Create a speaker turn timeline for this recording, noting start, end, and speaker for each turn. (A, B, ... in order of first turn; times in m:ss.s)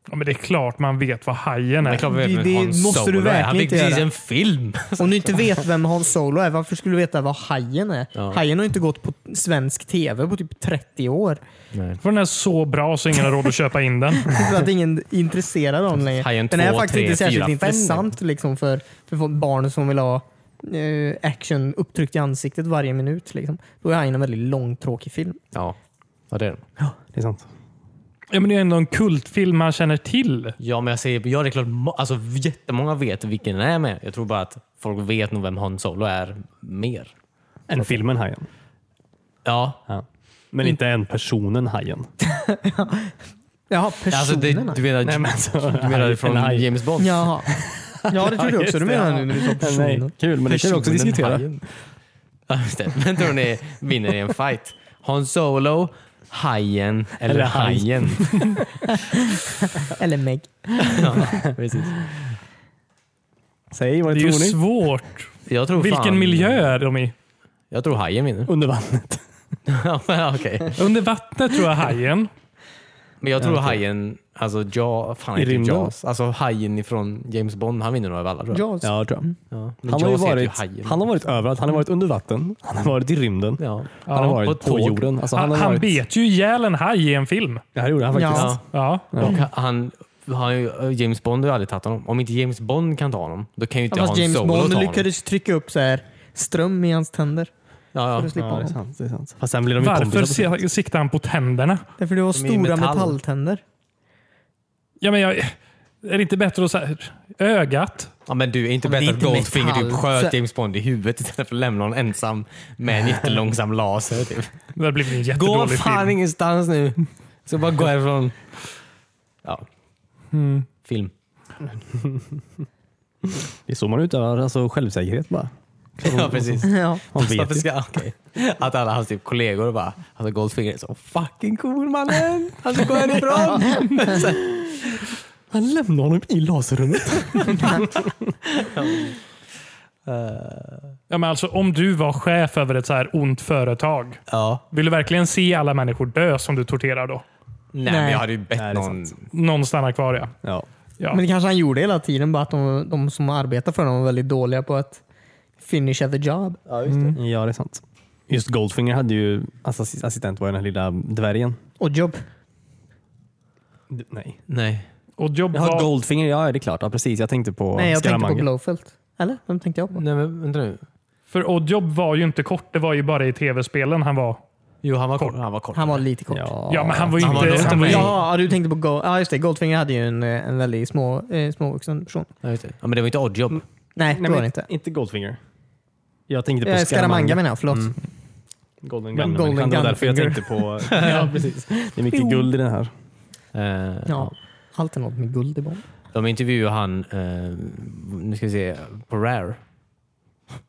0:00.1-0:02.1 A
0:01.8-0:05.5 B
0:02.0-0:04.1 C
0:05.0-0:11.4 C
0:08.2-0:08.4 B
0:11.7-0:12.0 B
0:12.0-0:14.4 A
0:14.2-0:25.4 C
0:16.2-0:18.1 B
0:26.3-0:26.6 B
0:26.8-0:27.5 D
0:28.3-0:30.6 A
0:30.6-0:37.1 B
0:37.7-0:38.5 D
0:39.4-0:39.8 B
0:39.9-0:42.1 D
0:42.3-0:43.1 C
0:43.7-0:44.8 C
0:44.1-0:47.3 B
0:45.0-0:46.7 D
0:47.0-0:50.1 C
0:47.4-0:51.5 D
0:50.4-0:51.7 B
0:52.5-0:58.6 B
0:57.3-0:58.6 D
0:59.0-1:01.3 C
1:00.8-1:02.4 B
1:03.7-1:04.6 D
1:04.1-1:07.1 A
1:05.5-1:06.8 B
1:07.7-1:08.5 B
1:08.5-1:09.2 D
1:09.7-1:10.8 B
1:10.8-1:12.3 A
1:13.2-1:18.6 B
1:13.4-1:13.8 D
1:15.4-1:15.9 D
1:18.5-1:19.4 C
1:18.8-1:19.3 D
1:19.5-1:21.1 B
1:19.8-1:26.0 D
1:23.6-1:25.2 B
1:24.1-1:24.4 A
1:25.3-1:27.6 A
1:27.8-1:28.6 D
1:28.1-1:28.5 C
1:28.3-1:28.6 B
1:28.7-1:29.1 A
1:29.1-1:29.4 D
1:29.2-1:35.0 B
1:33.9-1:37.5 C
1:37.9-1:38.3 B
1:38.2-1:38.8 C
1:38.4-1:40.5 D
1:39.8-1:41.9 A
1:42.0-1:43.6 C
1:42.3-1:43.2 B
1:45.0-1:48.1 A
1:48.3-1:54.6 B
1:48.8-1:50.4 C
1:54.8-1:56.2 A
1:55.3-1:58.5 B
2:00.3-2:00.7 A
2:00.8-2:01.1 B
2:01.9-2:02.4 D
2:03.3-2:07.7 D
2:06.0-2:15.1 B
2:06.6-2:07.0 C
2:15.5-2:18.3 D
2:17.4-2:17.8 B
2:18.6-2:19.2 B
2:20.1-2:21.0 B
2:21.1-2:27.2 A
2:24.3-2:24.6 B
2:27.7-2:29.2 B
2:27.9-2:28.2 C
2:28.6-2:29.1 D
2:29.3-2:30.3 A
2:31.1-2:35.0 C
2:35.6-2:36.6 C
2:36.7-2:37.2 B
2:36.9-2:37.2 A
2:37.2-2:41.6 D
2:41.8-2:42.2 C
2:43.9-2:44.4 D
2:44.5-2:44.9 B
2:45.2-2:45.9 A
2:45.5-2:48.5 D
2:47.8-2:50.0 C
2:50.0-2:50.8 B
2:51.3-2:54.4 A
2:54.8-2:56.0 B
2:55.7-2:56.6 C
2:56.3-2:58.1 D
2:56.7-2:58.1 A
2:57.2-2:58.2 B
2:57.7-3:02.3 C
3:02.4-3:03.6 B
3:04.0-3:04.7 C
3:04.1-3:05.4 D
3:06.3-3:08.0 D
3:06.6-3:08.0 C
3:08.8-3:12.9 D
3:09.1-3:11.3 C
3:11.0-3:11.3 B
3:12.2-3:12.4 C
3:13.5-3:14.3 B
3:14.1-3:15.8 C
3:16.1-3:19.6 B